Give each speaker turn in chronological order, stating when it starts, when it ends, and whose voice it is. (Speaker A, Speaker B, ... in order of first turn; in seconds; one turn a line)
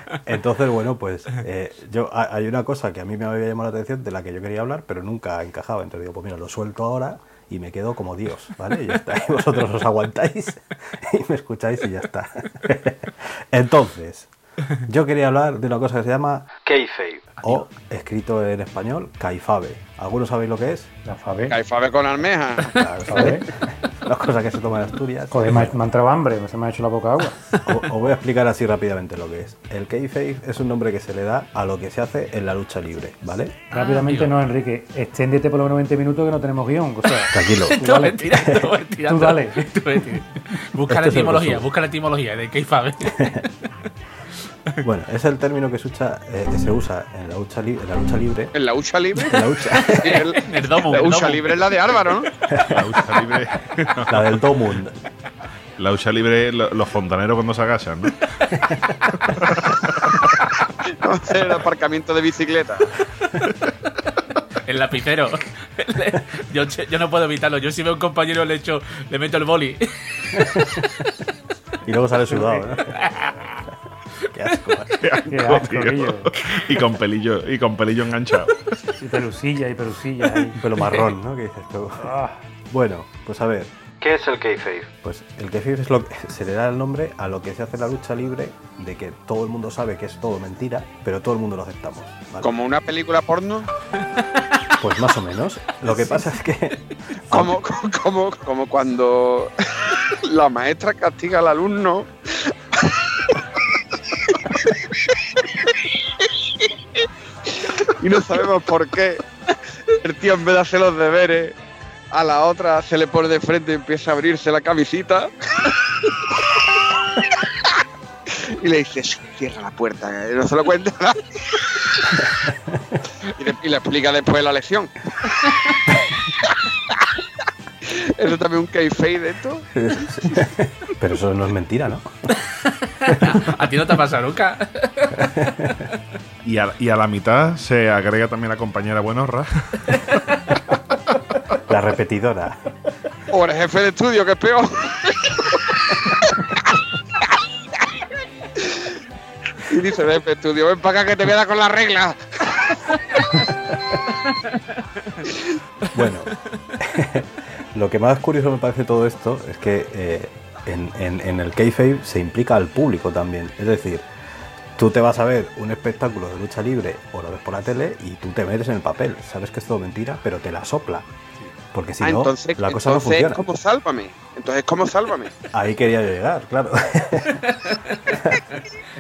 Speaker A: 0.1-20.9
Speaker B: 21.1-21.6
Speaker C: 21.5-22.8
Speaker A: 22.6-25.7
Speaker B: 23.1-23.5
Speaker B: 25.3-27.4
Speaker A: 27.6-33.6
Speaker D: 33.7-34.3
Speaker B: 33.7-38.3
Speaker A: 37.3-37.9
Speaker D: 37.7-43.4
Speaker A: 38.4-38.7
Speaker B: 39.0-39.8
Speaker A: 40.9-41.7
Speaker A: 43.1-43.5
Speaker A: 44.8-48.5
Speaker C: 48.5-52.3
Speaker A: 49.2-50.2
Speaker D: 49.8-52.2
Speaker E: 52.7-54.4
Speaker A: 54.1-54.9
Speaker E: 55.8-58.2
Speaker D: 58.6-59.1
Speaker E: 59.3-59.9
Speaker C: 60.9-63.0
Speaker D: 64.6-70.7
Speaker A: 70.3-71.0
Speaker A: 71.8-73.1
Speaker B: 72.3-72.7
Speaker D: 72.9-73.6
Speaker A: 74.3-75.2
Speaker E: 75.0-78.5
Speaker B: 75.3-76.3
Speaker B: 79.0-80.6
Speaker A: 80.5-92.5
Speaker B: 82.0-82.4
Speaker C: 92.4-93.7
Speaker D: 94.3-94.8
Speaker A: 94.8-97.5
Speaker C: 97.3-109.2
Speaker C: 109.9-111.6
Speaker C: 112.1-117.7
Speaker C: 118.3-122.3
Speaker A: 122.5-122.9
Speaker C: 123.2-124.9
Speaker D: 125.4-125.8
Speaker C: 126.1-127.2
Speaker C: 127.8-129.7
Speaker A: 129.7-132.1
Speaker D: 132.7-135.9
Speaker A: 135.2-135.7
Speaker E: 136.4-140.0
Speaker A: 141.6-142.7
Speaker C: 143.3-147.9
Speaker C: 148.6-149.0
Speaker C: 149.6-152.8
Speaker D: 153.0-153.5
Speaker D: 154.1-154.6
Speaker D: 155.1-156.1
Speaker A: 155.9-164.1
Speaker A: 164.8-171.1
Speaker A: 171.7-173.4
Speaker C: 172.0-175.3
Speaker A: 175.5-177.5
Speaker D: 177.7-178.2
Speaker A: 178.1-178.5